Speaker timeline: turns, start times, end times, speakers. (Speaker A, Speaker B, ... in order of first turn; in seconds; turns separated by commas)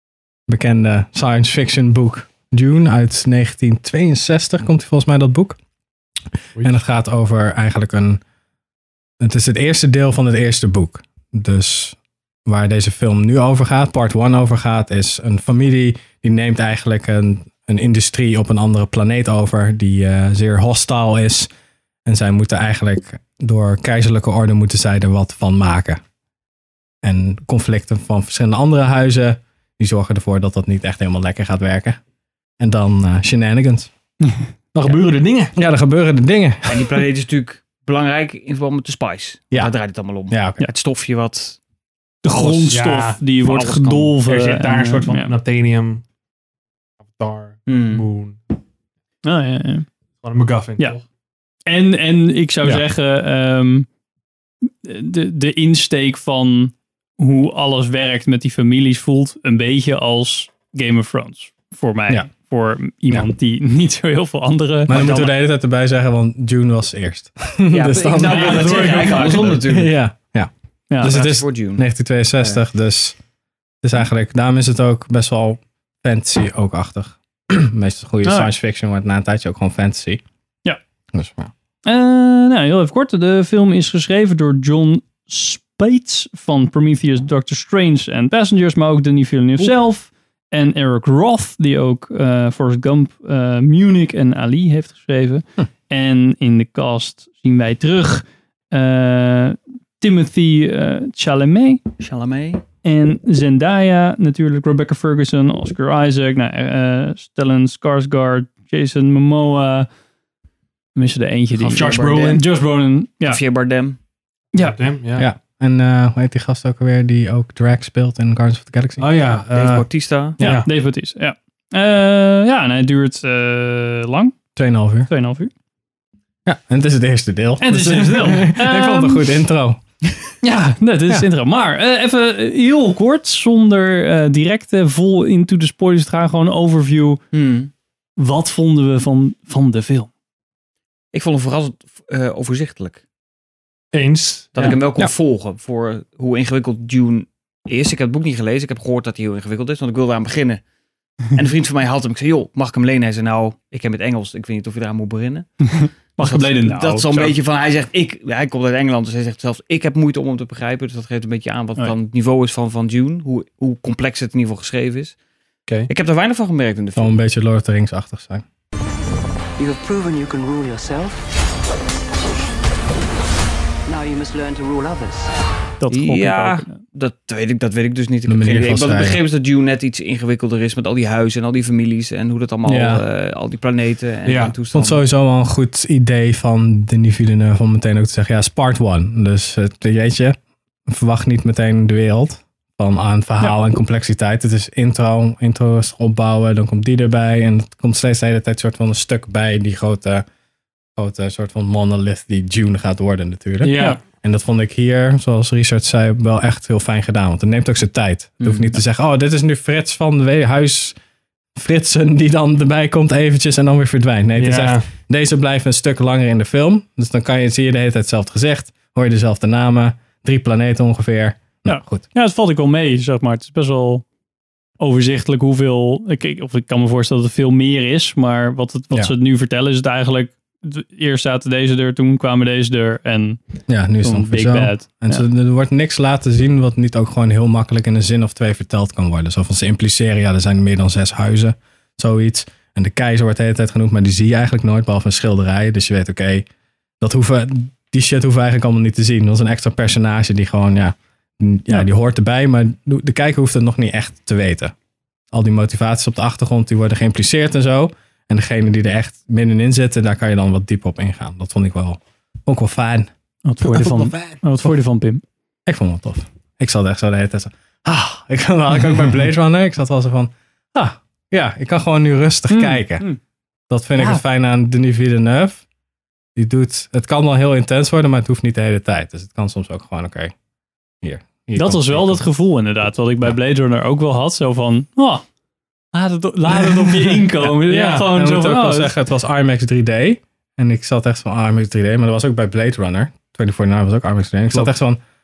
Speaker A: 0.5-5.6, Speaker A: 6.6-8.2, Speaker A: 9.2-21.5, Speaker A: 22.1-26.0, Speaker A: 27.0-32.0, Speaker A: 32.6-33.9, Speaker B: 34.7-35.5, Speaker A: 35.6-36.9, Speaker C: 36.7-41.6, Speaker A: 40.3-40.7, Speaker D: 42.2-45.4, Speaker B: 42.3-43.2, Speaker C: 43.4-44.2, Speaker B: 44.2-46.0, Speaker B: 47.1-48.4, Speaker C: 47.7-48.1, Speaker D: 49.2-49.9, Speaker B: 50.2-51.0, Speaker D: 51.7-53.9, Speaker D: 54.6-65.3, Speaker A: 64.9-73.2, Speaker C: 67.7-69.9, Speaker D: 68.2-69.6, Speaker C: 71.0-71.8, Speaker A: 73.8-80.2, Speaker D: 78.2-78.5, Speaker A: 81.1-81.5, Speaker D: 81.8-101.8, Speaker C: 102.0-102.6, Speaker D: 102.8-109.9, Speaker D: 111.0-113.4, Speaker C: 111.6-112.5, Speaker B: 111.7-112.4, Speaker C: 113.2-114.0, Speaker B: 114.6-115.3, Speaker A: 115.2-119.2, Speaker B: 119.0-120.7, Speaker C: 119.5-120.4, Speaker D: 120.4-124.4, Speaker A: 124.6-125.1, Speaker D: 125.1-125.5, Speaker A: 126.5-129.8, Speaker D: 127.6-129.3, Speaker D: 130.4-137.2, Speaker C: 137.3-137.7, Speaker D: 138.2-140.1, Speaker C: 141.1-143.0, Speaker B: 143.9-144.8, Speaker C: 144.6-150.6, Speaker C: 151.3-165.2, Speaker D: 155.8-157.4, Speaker C: 165.9-167.2, Speaker A: 167.0-168.4, Speaker E: 169.6-171.3, Speaker E: 173.9-175.4, Speaker D: 175.8-176.8, Speaker C: 175.9-185.0, Speaker A: 178.3-179.2, Speaker A: 182.7-183.0, Speaker B: 184.3-184.5, Speaker A: 184.7-200.2, Speaker A: 201.0-210.9, Speaker B: 203.6-204.0, Speaker C: 208.4-208.7, Speaker A: 211.6-222.1, Speaker B: 214.4-214.8, Speaker D: 221.7-224.1, Speaker D: 224.8-233.4, Speaker A: 233.7-246.4, Speaker D: 233.9-235.3, Speaker A: 247.0-254.7, Speaker A: 255.3-263.1, Speaker D: 263.4-265.2, Speaker B: 263.7-264.4, Speaker A: 265.7-273.1, Speaker D: 272.5-273.2, Speaker A: 273.7-275.7, Speaker D: 274.0-274.2, Speaker A: 276.4-280.3, Speaker A: 281.0-282.2, Speaker D: 281.6-285.2, Speaker D: 285.9-288.9, Speaker A: 286.7-295.0